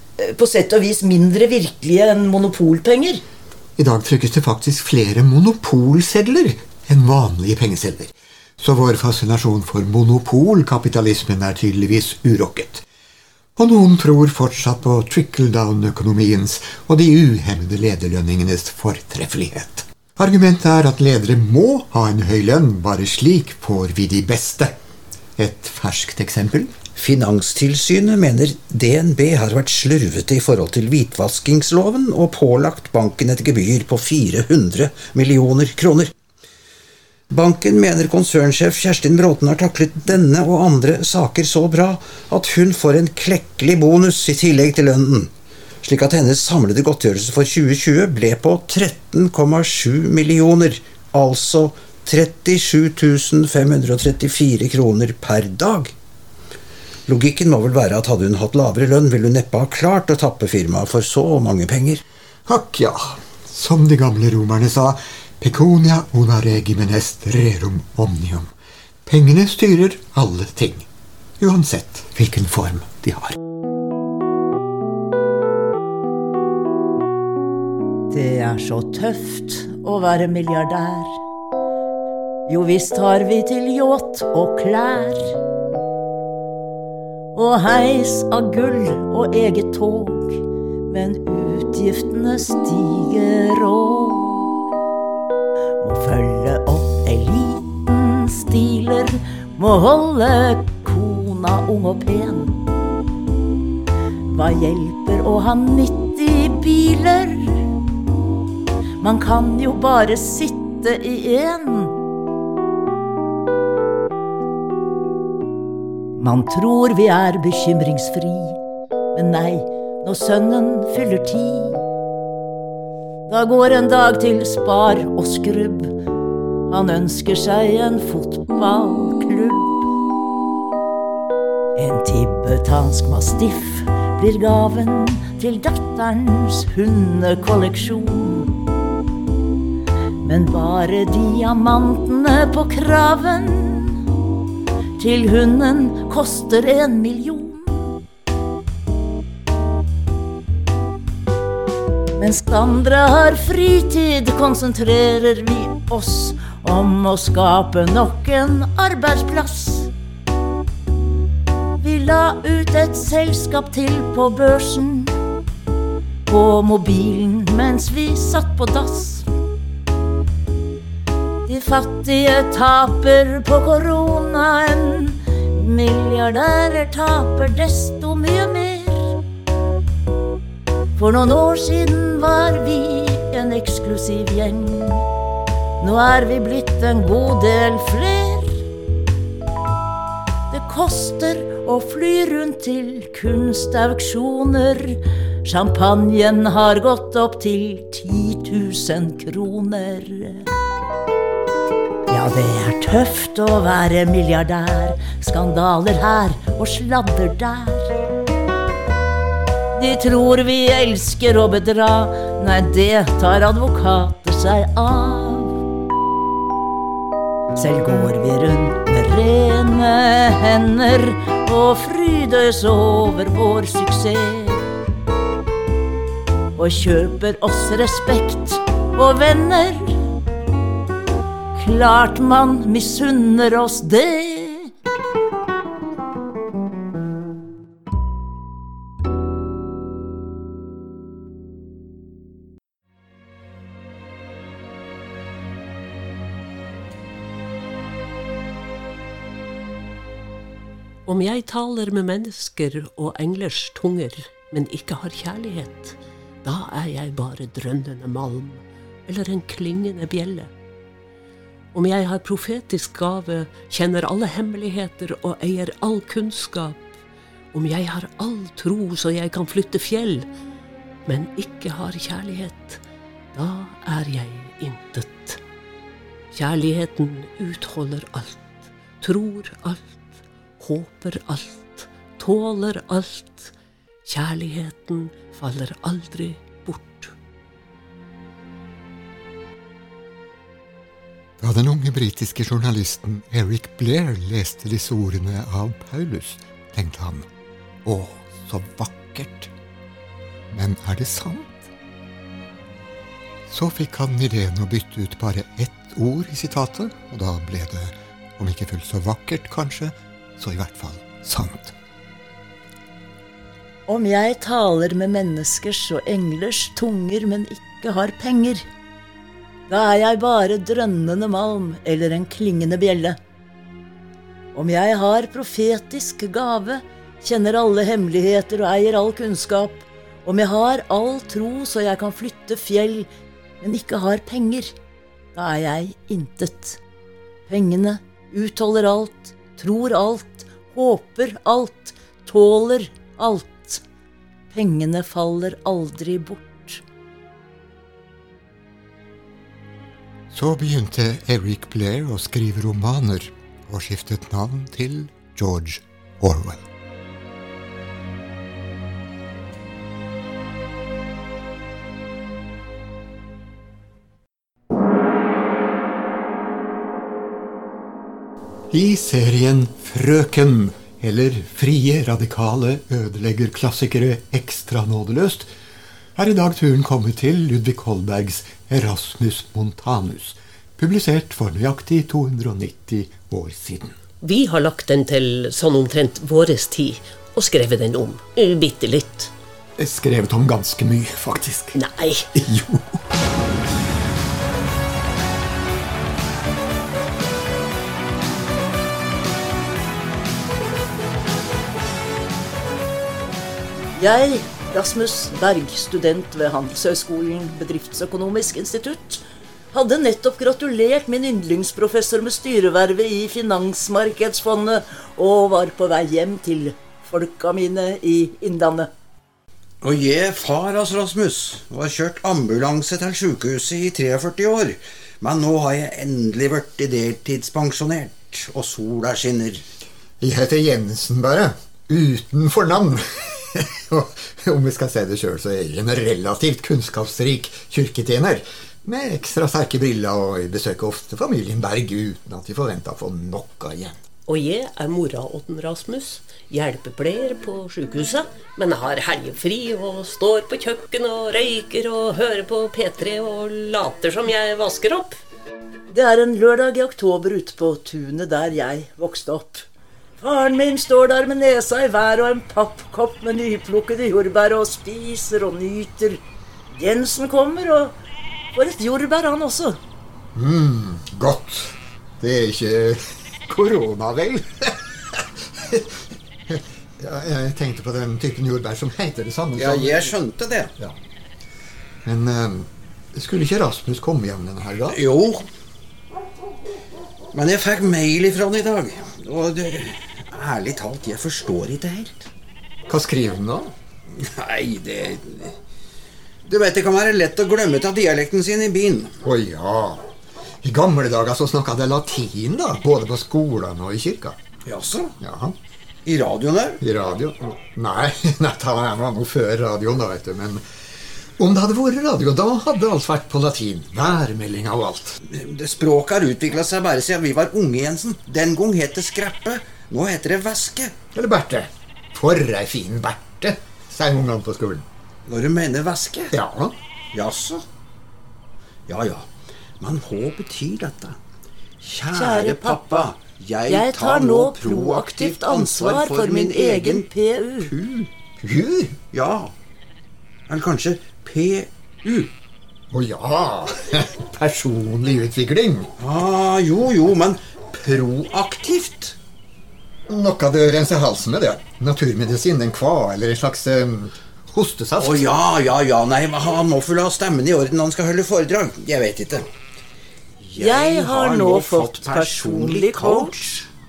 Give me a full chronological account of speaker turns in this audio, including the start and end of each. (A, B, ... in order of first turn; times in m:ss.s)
0:00.2-0:03.2 A
0:03.8-0:12.9 B
0:13.6-0:24.8 B
0:25.4-0:26.7 B
0:27.0-0:36.1 C
0:37.3-0:45.3 C
0:45.8-0:55.9 C
0:57.1-1:02.0 C
1:02.5-1:08.5 B
1:09.1-1:10.9 B
1:11.4-1:13.4 B
1:18.1-1:21.2 A
1:22.5-1:25.3 A
1:27.4-1:34.6 A
1:35.8-1:42.6 A
1:44.3-1:47.6 A
1:49.0-1:52.0 A
1:56.2-1:58.6 A
1:59.1-2:01.8 A
2:03.3-2:06.0 A
2:06.7-2:09.9 A
2:11.8-2:18.6 A
2:20.2-2:24.0 A
2:25.0-2:28.0 A
2:32.2-2:39.9 A
2:41.8-2:45.2 A
2:46.3-2:49.3 A
2:51.5-2:59.2 A
3:01.0-3:05.0 A
3:05.8-3:08.6 A
3:10.5-3:20.5 A
3:22.1-3:27.9 A
3:29.8-3:35.6 A
3:37.6-3:44.6 A
3:46.6-3:50.0 A
3:51.6-3:54.7 A
4:11.1-4:20.5 D
4:21.7-4:26.9 D
4:27.5-4:30.3 D
4:31.1-4:32.8 D
4:33.3-4:35.4 D
4:36.3-4:40.1 D
4:40.6-4:43.5 D
4:44.0-4:47.1 D
4:51.4-4:57.3 B
4:57.8-4:59.5 B
5:00.5-5:01.7 B
5:03.5-5:11.8 B
5:13.9-5:18.7 A
5:19.7-5:23.2 A
5:24.5-5:33.1 A
5:33.6-5:34.7 A
5:35.4-5:36.8 A
5:37.5-5:43.8 A
5:44.5-5:46.8 A
5:50.3-5:56.6 B
6:08.7-6:15.5 B
6:16.2-6:24.0 B
6:24.2-6:29.3 D
6:29.8-6:31.8 B
6:31.7-6:32.3 D
6:32.3-6:33.0 B
6:44.0-6:58.9 A
6:59.8-7:09.6 C
7:10.2-7:24.0 B
7:24.3-7:35.2 D
7:35.9-7:39.7 A
7:40.2-7:46.2 A
7:46.7-7:48.0 A
7:48.5-7:49.8 A
7:50.4-8:00.2 B
7:59.6-8:00.7 C
8:02.0-8:05.0 B
8:04.9-8:05.5 C
8:07.3-8:12.3 C
8:12.9-8:13.7 B
8:14.1-8:15.6 C
8:16.5-8:19.2 C
8:19.2-8:20.1 B
8:20.6-8:24.4 B
8:24.7-8:25.2 C
8:25.2-8:25.6 B
8:26.1-8:26.8 C
8:26.8-8:30.6 B
8:31.4-8:35.2 B
8:35.2-8:41.0 C
8:41.1-8:44.9 B
8:45.3-8:46.4 C
8:46.3-8:46.8 B
8:47.1-8:47.6 C
8:48.9-8:49.3 C
8:49.8-8:51.2 C
8:51.8-8:58.1 C
8:52.1-8:53.1 A
8:53.7-8:57.7 A
8:58.4-8:59.0 B
8:59.1-8:59.5 C
9:00.5-9:02.3 C
9:02.9-9:05.9 B
9:06.0-9:09.2 C
9:10.1-9:15.3 B
9:15.0-9:19.5 C
9:20.4-9:23.7 C
9:20.6-9:23.3 A